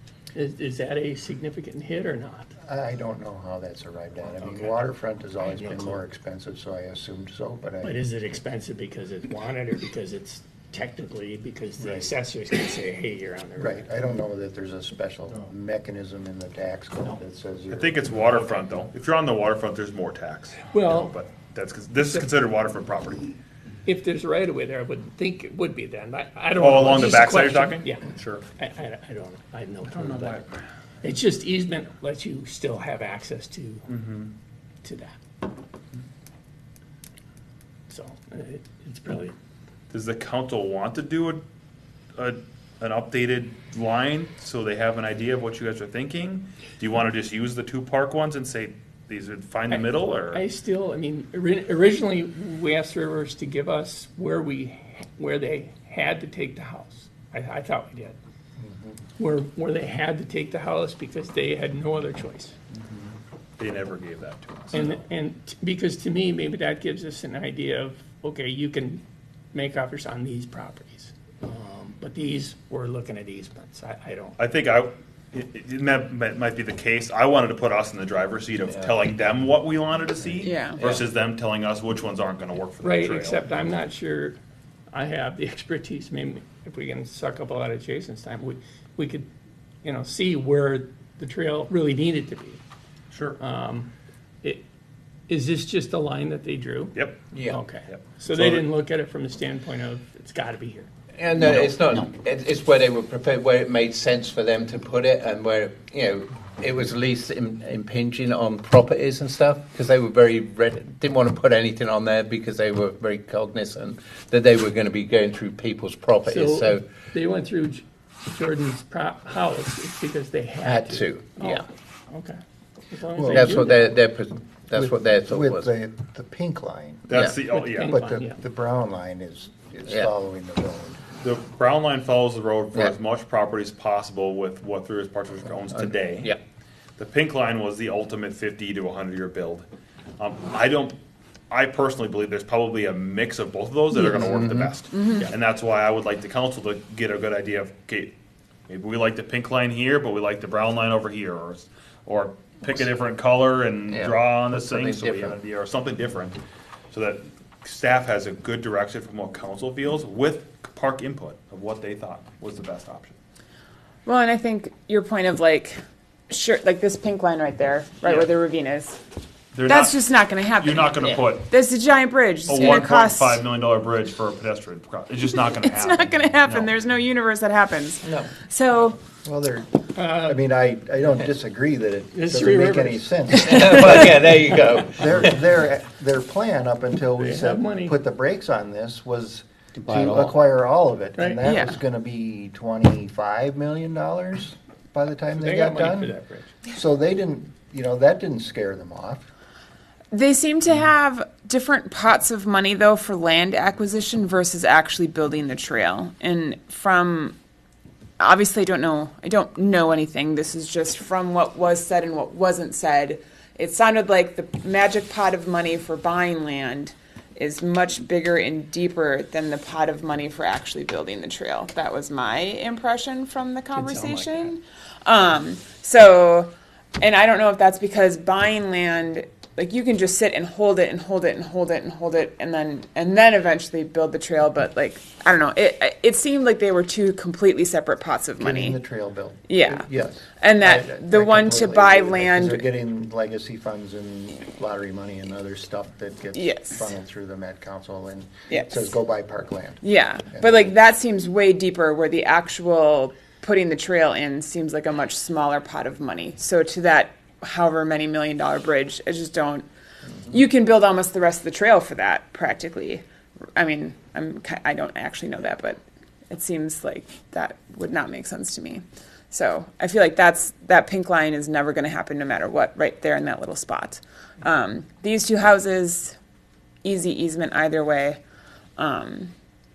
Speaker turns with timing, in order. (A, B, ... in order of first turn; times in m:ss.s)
0:00.3-0:02.5 A
0:02.6-0:08.0 B
0:04.3-0:04.8 A
0:05.4-0:06.0 A
0:07.8-0:13.8 A
0:11.8-0:12.1 B
0:13.6-0:18.0 B
0:17.7-0:23.3 C
0:20.7-0:21.2 A
0:22.0-0:22.2 A
0:23.8-0:33.9 A
0:26.6-0:28.4 C
0:29.9-0:30.5 C
0:33.9-0:34.3 C
0:34.8-0:35.2 A
0:37.9-0:39.3 A
0:39.9-0:41.4 C
0:42.2-0:50.4 C
0:49.7-0:58.2 A
0:58.6-0:59.0 B
0:59.2-1:02.6 A
1:02.7-1:05.0 C
1:04.7-1:14.4 A
1:14.4-1:23.5 C
1:20.4-1:21.0 D
1:22.8-1:24.4 A
1:24.9-1:29.3 A
1:29.8-1:32.6 A
1:33.1-1:33.4 C
1:33.4-1:33.9 A
1:35.3-1:40.9 A
1:37.3-1:37.6 E
1:37.9-1:38.7 C
1:41.2-1:56.8 E
1:56.2-2:04.0 A
2:00.6-2:01.6 E
2:03.2-2:03.7 B
2:03.2-2:05.7 E
2:05.2-2:07.1 B
2:07.1-2:07.9 C
2:07.1-2:07.4 E
2:07.4-2:08.4 A
2:07.8-2:11.0 B
2:11.2-2:16.3 C
2:15.7-2:16.4 E
2:17.0-2:19.6 C
2:20.2-2:21.0 C
2:21.5-2:28.1 C
2:23.9-2:24.7 E
2:24.9-2:25.3 D
2:28.7-2:36.4 C
2:33.9-2:35.4 E
2:36.9-2:43.2 C
2:44.0-2:45.8 D
2:46.3-2:49.0 D
2:48.0-2:48.3 C
2:49.5-2:50.0 C
2:49.6-2:53.4 D
2:50.6-2:51.5 C
2:52.5-2:56.7 C
2:55.3-2:59.0 D
2:59.2-3:04.3 B
3:00.0-3:00.4 A
3:02.1-3:04.6 A
3:03.3-3:05.4 E
3:04.9-3:16.1 B
3:07.2-3:08.0 A
3:09.8-3:10.4 E
3:11.2-3:11.4 A
3:11.4-3:11.8 D
3:15.3-3:16.5 A
3:16.7-3:19.2 B
3:20.1-3:27.4 D
3:28.2-3:58.8 D
3:43.7-3:44.5 A
3:58.4-4:10.7 B
3:59.5-3:59.9 D
4:00.4-4:02.7 D
4:06.3-4:06.9 D
4:08.5-4:08.9 D
4:09.8-4:19.7 D
4:20.3-4:23.0 D
4:23.6-4:36.2 D
4:36.8-4:38.2 D
4:38.8-4:39.3 D